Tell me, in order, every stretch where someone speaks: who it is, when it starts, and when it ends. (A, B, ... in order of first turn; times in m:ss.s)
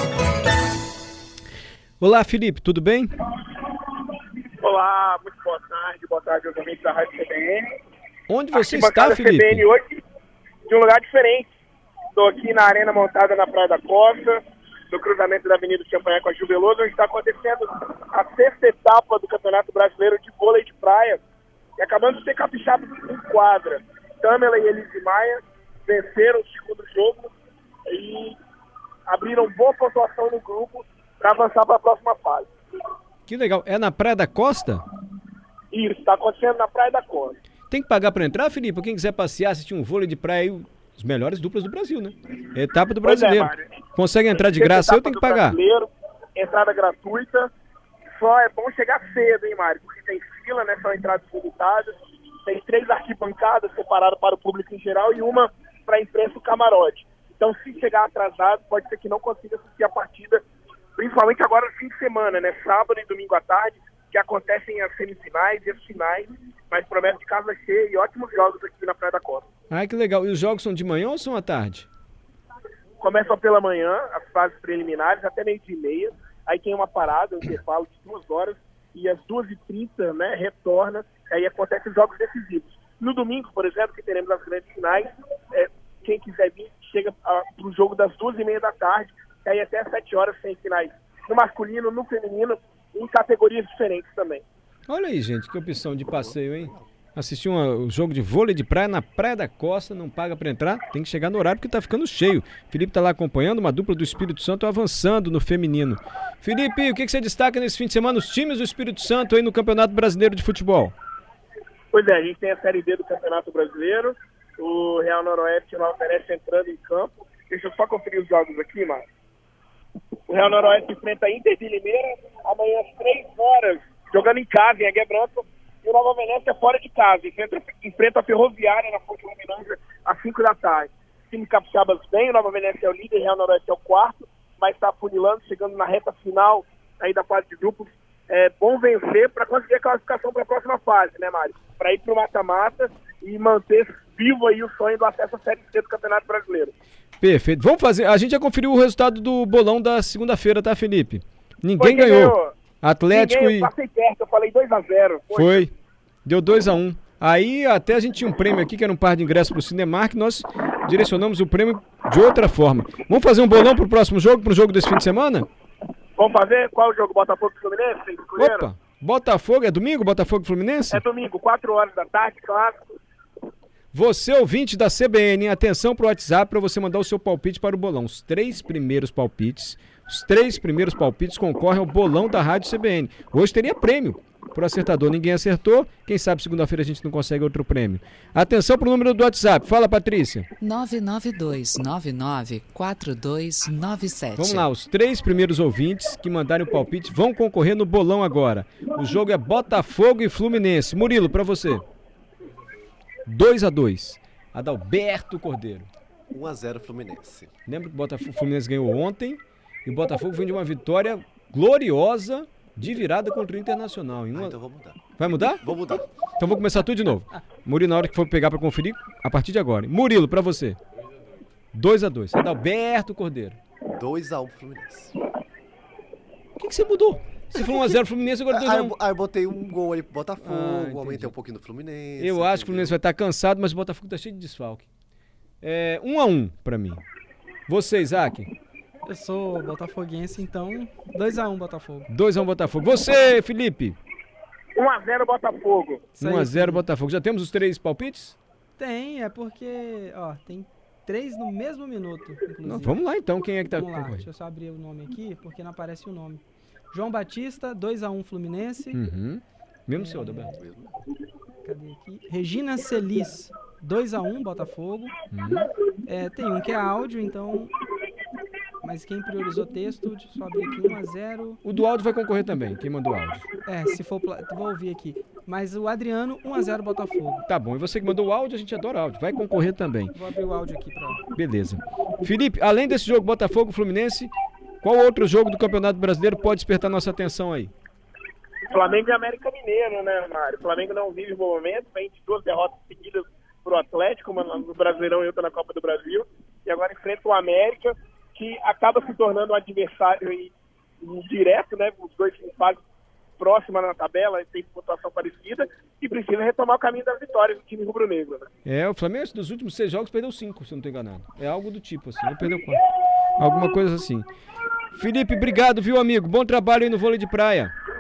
0:02.0-0:03.1 A
0:04.6-0:07.8 B
0:08.3-0:09.7 A
0:08.5-0:10.0 B
0:10.7-0:11.5 B
0:12.1-0:21.2 B
0:21.8-0:27.3 B
0:27.9-0:28.4 B
0:29.1-0:32.5 B
0:33.3-0:34.8 A
0:35.7-0:37.4 B
0:37.7-0:45.6 A
0:43.0-0:43.6 B
0:44.4-0:47.5 B
0:48.1-1:00.4 B
1:01.0-1:09.4 B
1:09.7-1:11.9 A
1:13.0-1:34.4 B
1:34.9-1:50.9 A
1:36.1-1:36.8 C
1:51.9-1:59.0 B
2:00.3-2:26.7 B
2:27.2-2:33.7 A
2:31.8-2:32.5 B
2:33.1-2:35.6 B
2:35.3-2:35.7 A
2:36.2-2:45.5 A
2:46.2-2:48.6 B
2:48.4-2:51.0 A
2:50.9-2:52.9 B
2:53.9-3:10.5 A
3:10.6-3:14.6 D
3:14.3-3:21.8 A
3:23.3-3:25.9 A
3:26.3-3:27.5 C
3:27.7-3:34.6 A
3:34.3-3:36.1 C
3:35.2-3:40.8 A
3:41.7-3:43.6 A
3:43.9-3:45.2 C
3:46.6-3:48.9 A
3:48.5-3:53.0 C
3:50.4-3:51.3 A
3:52.2-3:54.9 A
3:55.6-3:57.0 A
3:57.7-3:58.5 A
3:59.0-4:02.1 E
4:02.1-4:04.0 A
4:04.8-4:06.0 B
4:06.1-4:06.8 E
4:06.2-4:08.4 A
4:08.8-4:13.0 E
4:12.6-4:14.3 A
4:13.7-4:19.0 E
4:18.9-4:20.5 A
4:20.0-4:20.6 E
4:20.6-4:21.0 C
4:21.6-4:25.1 E
4:25.3-4:25.7 A
4:26.0-4:27.7 E
4:28.8-4:31.6 E
4:31.6-4:33.5 A
4:33.6-4:37.4 E
4:37.5-4:40.2 A
4:40.1-4:41.2 E
4:41.3-4:47.7 A
4:48.7-5:02.8 B
5:03.4-5:08.5 B
5:08.6-5:14.3 A
5:14.9-5:17.7 A